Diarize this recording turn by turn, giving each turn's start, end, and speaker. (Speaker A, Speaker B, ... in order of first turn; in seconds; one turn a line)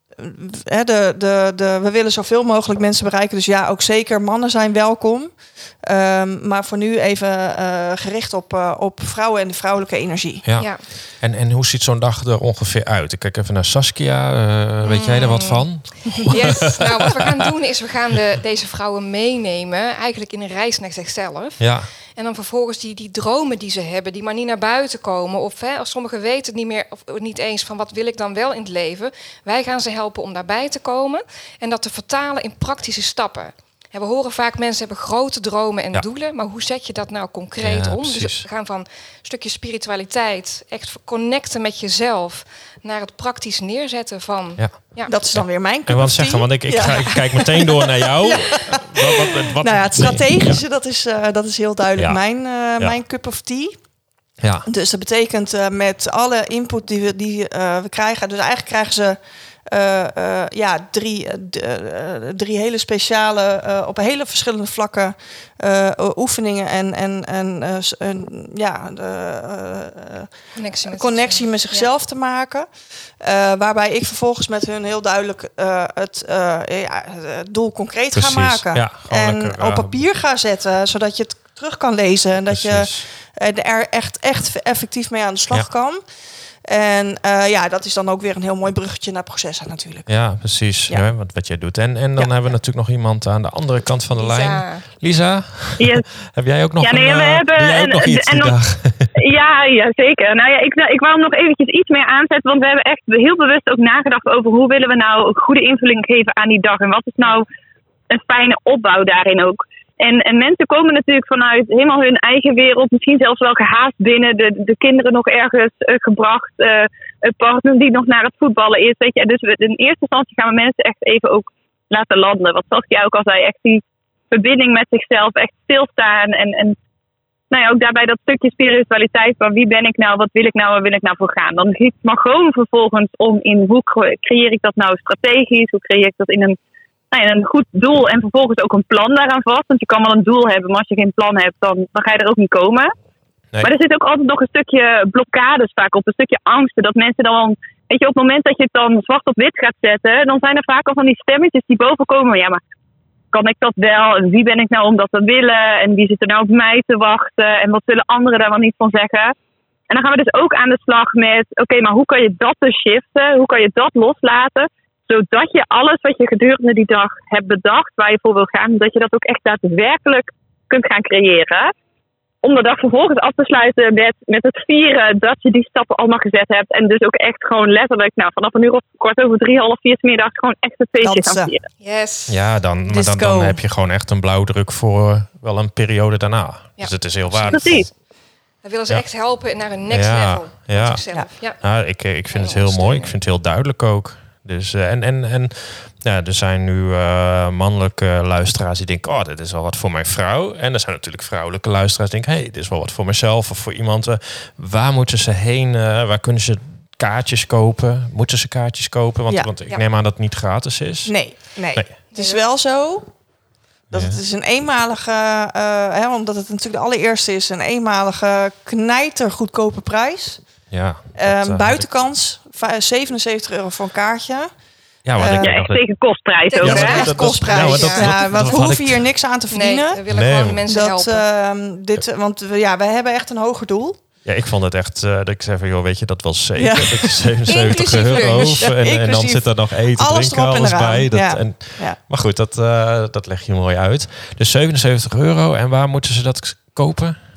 Speaker A: 0.2-10.4
Speaker B: 10.4-17.4
Speaker C: 10.6-10.9
Speaker C: 14.8-45.1
Speaker B: 21.6-21.9
Speaker B: 37.6-38.5
Speaker B: 44.6-50.6
Speaker A: 45.0-53.8
Speaker B: 52.0-52.2
Speaker B: 54.4-54.7
Speaker A: 54.6-86.0
Speaker C: 70.5-71.9
Speaker B: 78.1-80.0
Speaker B: 82.5-83.1
Speaker A: 86.6-91.1
Speaker B: 90.1-99.1
Speaker C: 94.2-94.8
Speaker D: 95.8-96.0
Speaker D: 96.8-98.6
Speaker D: 99.1-107.5
Speaker D: 108.1-126.8
Speaker D: 127.5-136.6
Speaker D: 137.1-142.9
Speaker D: 143.6-152.6
Speaker D: 153.3-159.3
Speaker D: 159.9-171.7
Speaker D: 172.4-181.6
Speaker A: 181.0-181.5
Speaker C: 181.8-182.4
Speaker B: 182.3-187.9
Speaker A: 182.9-183.6
Speaker C: 186.8-187.8
Speaker D: 187.5-187.8
Speaker C: 188.6-193.1
Speaker B: 189.9-211.9
Speaker A: 211.1-213.1
Speaker C: 212.1-212.4
Speaker B: 213.9-214.2
Speaker A: 213.9-224.5
Speaker B: 220.7-221.9
Speaker B: 225.0-225.8
Speaker A: 225.2-225.5
Speaker D: 225.4-227.1
Speaker C: 226.5-228.4
Speaker B: 226.6-229.1
Speaker A: 226.6-230.0
Speaker C: 229.5-231.2
Speaker B: 230.1-230.6
Speaker A: 230.7-234.0
Speaker B: 234.2-247.2
Speaker A: 236.6-237.4
Speaker C: 237.5-238.7
Speaker A: 238.1-242.0